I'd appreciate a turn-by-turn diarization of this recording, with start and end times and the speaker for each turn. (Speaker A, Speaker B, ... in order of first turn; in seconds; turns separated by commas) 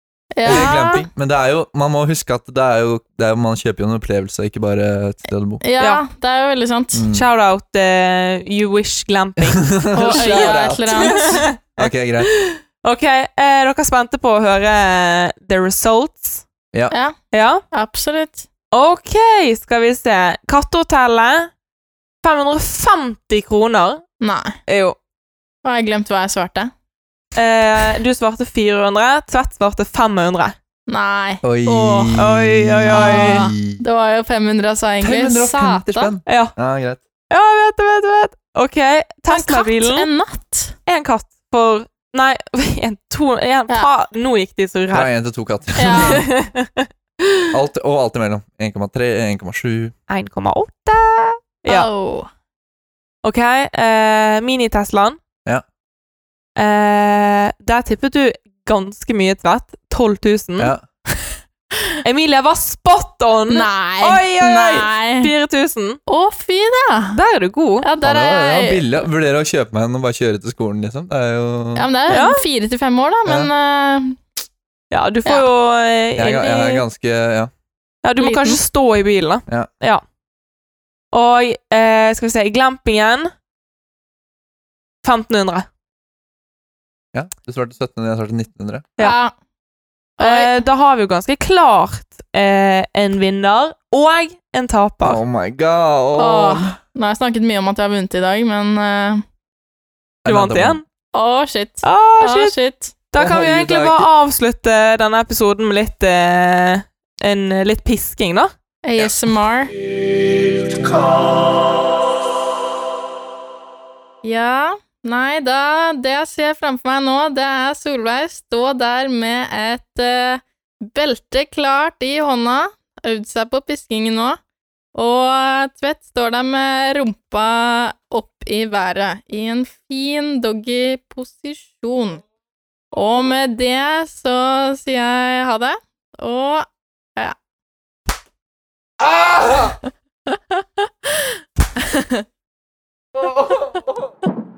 Speaker A: 0.3-1.1, Speaker B: 0.4-5.6, Speaker A: 5.6-7.0, Speaker B: 6.9-7.2, Speaker C: 7.1-16.4, Speaker B: 9.4-12.3, Speaker A: 9.9-11.4, Speaker A: 16.9-17.1, Speaker C: 17.3-17.6, Speaker A: 17.7-18.4, Speaker C: 18.7-21.5, Speaker C: 22.2-24.0, Speaker A: 24.2-24.6, Speaker C: 24.7-24.9, Speaker A: 25.6-26.7, Speaker C: 27.3-30.5, Speaker A: 30.9-32.2, Speaker B: 31.4-33.8, Speaker C: 32.2-33.5, Speaker A: 32.9-36.1, Speaker B: 35.0-37.0, Speaker C: 36.3-36.5, Speaker C: 37.3-40.1, Speaker A: 39.3-40.7, Speaker C: 40.9-45.1, Speaker B: 44.9-46.2, Speaker A: 45.8-46.2, Speaker C: 45.9-47.4, Speaker B: 47.5-49.9, Speaker C: 50.1-51.9, Speaker A: 51.7-52.3, Speaker C: 53.2-55.2, Speaker C: 56.6-60.7, Speaker B: 60.6-60.8, Speaker C: 62.0-66.0, Speaker A: 63.5-65.3, Speaker A: 66.1-67.2, Speaker C: 67.1-67.9, Speaker A: 67.8-68.9, Speaker B: 68.0-71.9, Speaker A: 71.8-74.2, Speaker C: 72.1-72.4, Speaker C: 74.9-76.8, Speaker B: 76.2-77.5, Speaker C: 78.0-80.0, Speaker A: 78.2-78.6, Speaker C: 81.1-83.3, Speaker C: 85.0-85.7, Speaker B: 87.1-88.9, Speaker A: 89.0-89.3, Speaker A: 90.2-90.5, Speaker C: 90.2-95.2, Speaker B: 95.0-96.8, Speaker A: 96.2-99.2, Speaker B: 100.2-100.8, Speaker C: 100.2-100.8, Speaker A: 101.1-102.9, Speaker C: 101.8-102.5, Speaker C: 103.1-108.5, Speaker B: 103.2-104.1, Speaker A: 108.8-109.7, Speaker A: 114.2-124.4, Speaker A: 124.9-132.2, Speaker A: 132.9-137.3, Speaker B: 139.0-139.8, Speaker A: 141.8-142.2, Speaker B: 143.2-144.1